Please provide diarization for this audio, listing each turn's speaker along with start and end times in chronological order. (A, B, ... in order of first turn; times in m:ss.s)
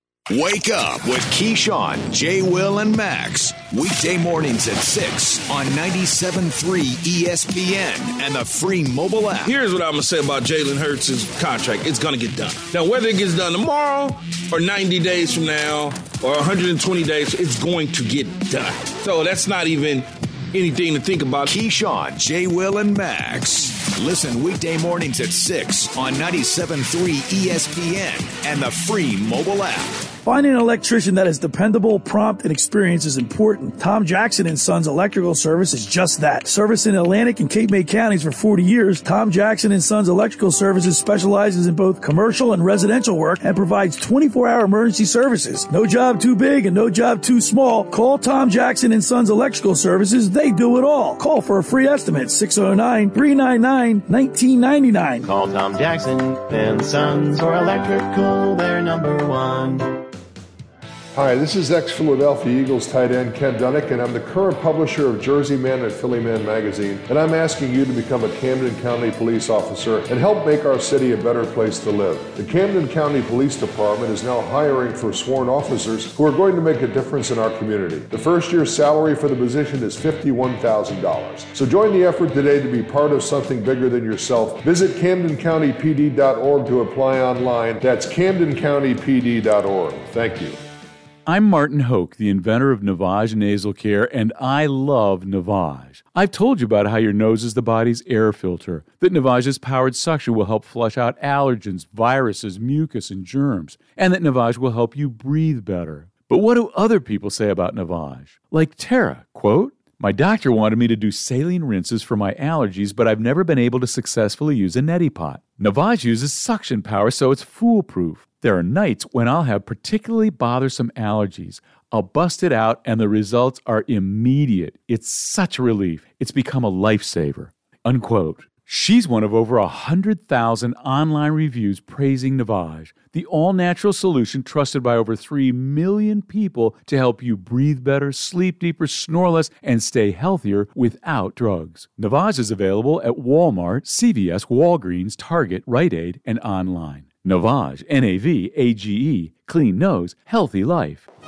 0:00.3-0:09.5 A
0:09.5-0:21.5 B
0:21.4-0:30.1 A
0:30.2-0:55.3 C
0:55.3-0:59.9 D
1:01.1-1:30.6 E
1:31.3-2:31.1 F